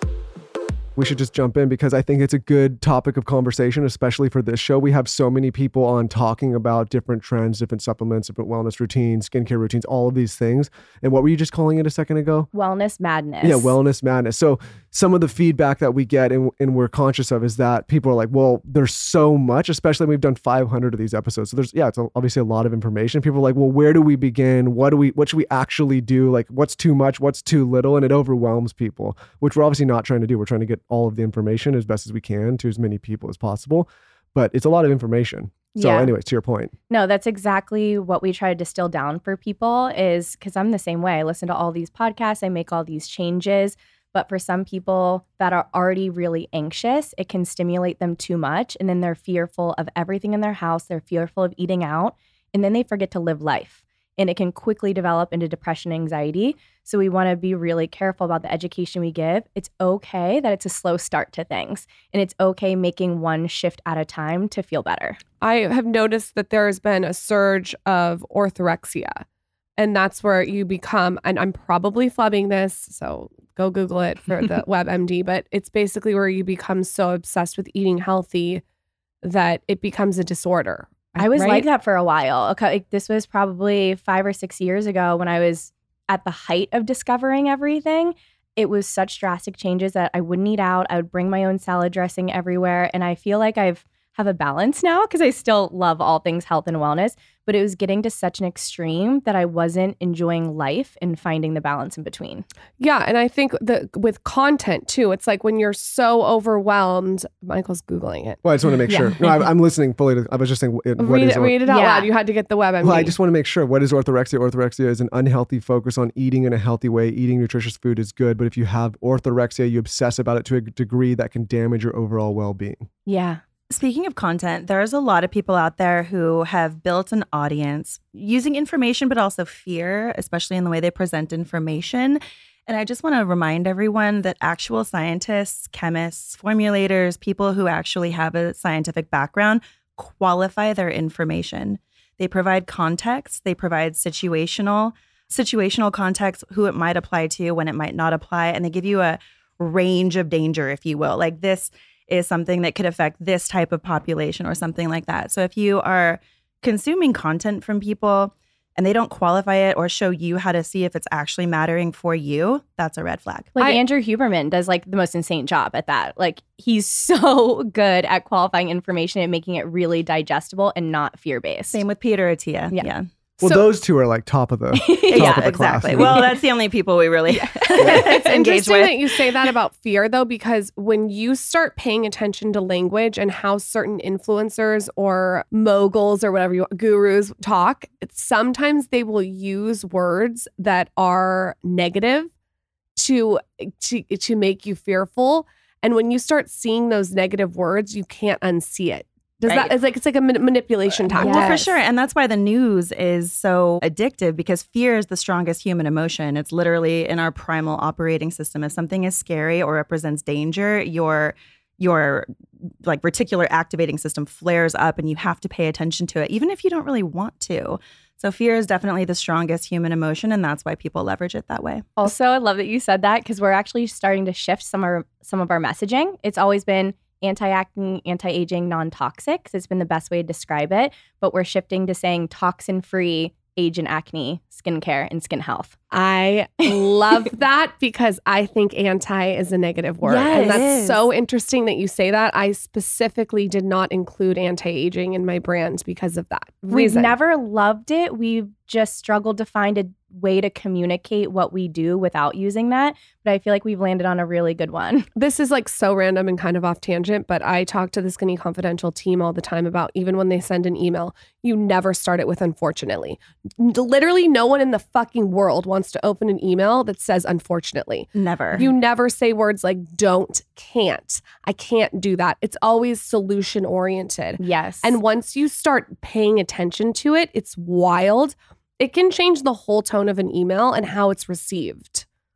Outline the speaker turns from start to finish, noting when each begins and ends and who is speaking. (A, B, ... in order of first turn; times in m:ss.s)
0:01.0-0:12.5 A
0:12.5-0:13.7 B
0:13.4-0:36.7 A
0:35.7-0:36.1 B
0:36.9-1:05.2 B
1:05.4-1:09.2 C
1:09.8-1:18.6 C
1:19.2-1:21.7 C
1:21.2-1:42.4 B
1:42.8-1:48.4 C
1:48.4-1:51.6 A
1:48.9-1:49.2 B
1:51.0-1:53.1 C
1:51.7-1:52.1 B
1:52.8-2:02.9 A
2:03.0-2:03.4 B
2:03.7-2:43.5 D
2:43.6-2:51.8 B
2:51.7-2:53.0 D
2:53.4-2:56.2 A
2:54.7-2:56.3 B
2:55.1-2:59.1 D
2:57.4-2:58.2 B
2:57.9-3:12.3 C
3:13.0-3:21.8 C
3:21.1-3:32.3 D
3:21.1-3:21.6 B
3:32.8-3:41.9 D
3:42.0-3:55.8 B
3:55.9-4:07.2 C
4:00.0-4:01.0 B
4:00.3-4:00.7 D
4:06.7-4:15.1 B
4:15.1-4:42.0 C
4:28.1-4:28.7 D
4:34.4-4:35.0 B